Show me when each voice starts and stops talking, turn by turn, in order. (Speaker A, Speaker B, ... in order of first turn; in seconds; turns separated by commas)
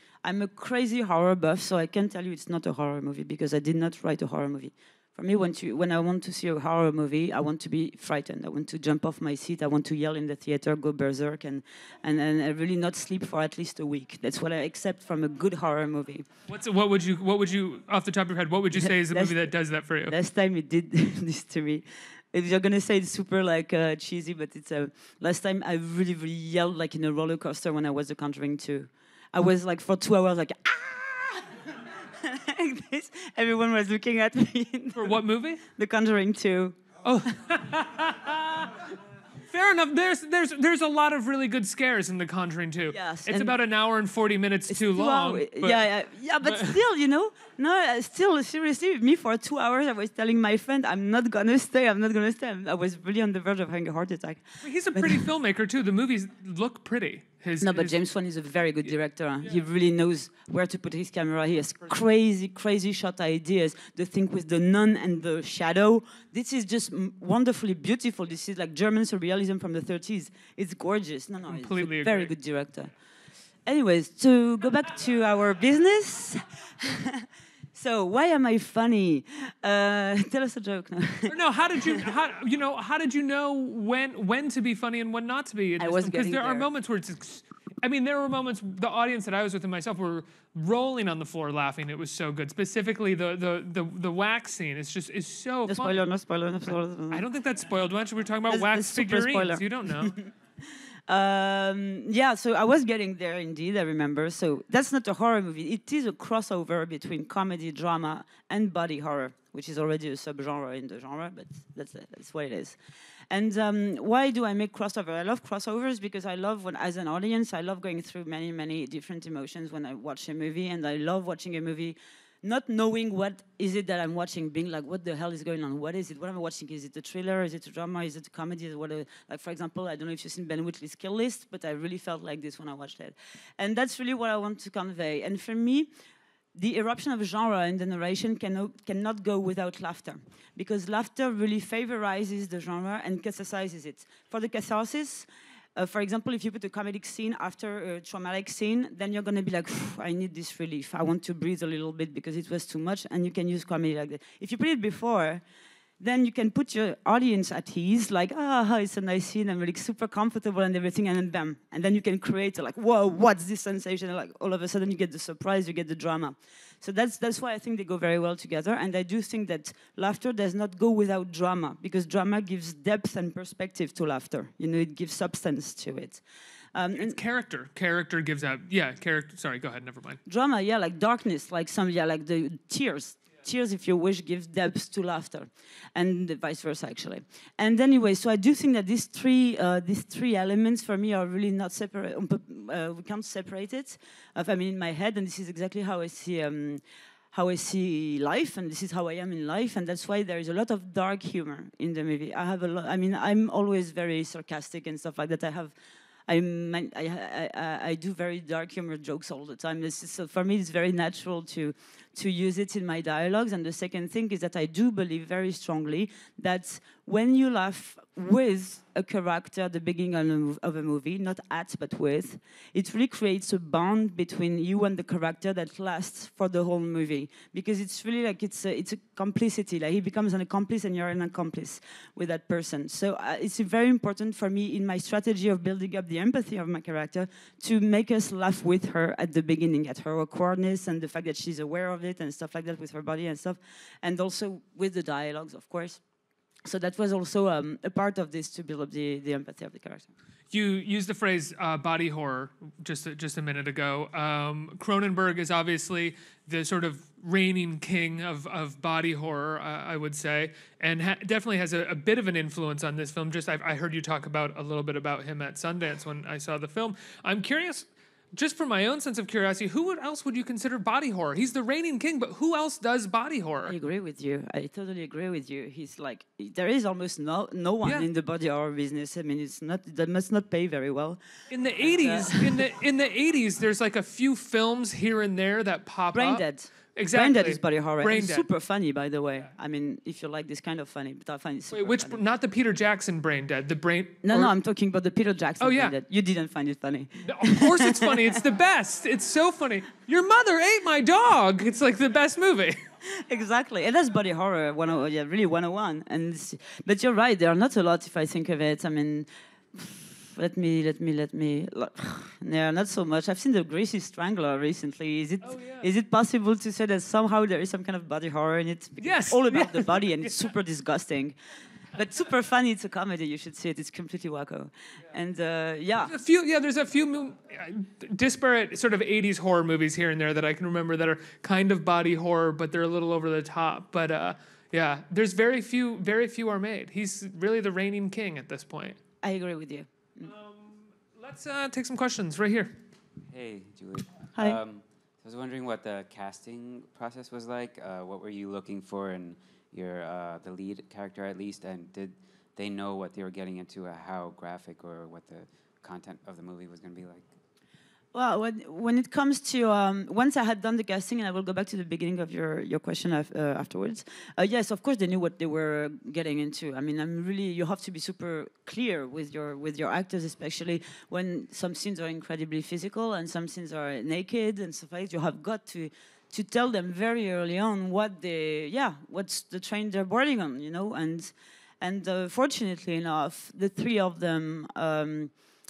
Speaker A: 0.2-16.3, Speaker B: 16.5-20.1, Speaker A: 18.7-19.5, Speaker A: 20.1-36.9, Speaker B: 35.0-35.6, Speaker B: 37.0-38.9, Speaker B: 39.5-45.9, Speaker A: 42.9-43.6, Speaker A: 44.7-55.3, Speaker B: 46.4-46.8, Speaker B: 54.6-58.0, Speaker A: 57.6-72.9, Speaker B: 71.5-72.3, Speaker A: 73.7-82.0, Speaker B: 81.3-96.0, Speaker A: 85.8-86.7, Speaker A: 95.7-97.2, Speaker B: 97.1-100.2, Speaker A: 98.5-100.3, Speaker A: 101.1-112.8, Speaker A: 113.3-135.9, Speaker A: 136.6-155.4, Speaker A: 156.0-176.2, Speaker A: 176.8-177.2, Speaker B: 176.9-180.2, Speaker A: 180.3-196.8, Speaker A: 197.3-205.7, Speaker A: 206.3-246.0, Speaker A: 246.7-250.1, Speaker B: 250.5-273.8, Speaker A: 273.7-281.2, Speaker B: 281.5-286.4, Speaker A: 281.8-282.7, Speaker A: 286.1-292.2, Speaker B: 286.9-288.5, Speaker B: 291.7-294.5, Speaker A: 294.2-298.4, Speaker B: 295.6-296.0, Speaker B: 297.2-302.8, Speaker A: 303.0-321.4, Speaker B: 315.4-315.9, Speaker B: 319.0-320.3, Speaker A: 321.9-326.1, Speaker B: 326.0-339.0, Speaker A: 339.2-340.3, Speaker B: 340.3-342.8, Speaker C: 343.3-357.3, Speaker A: 358.1-385.3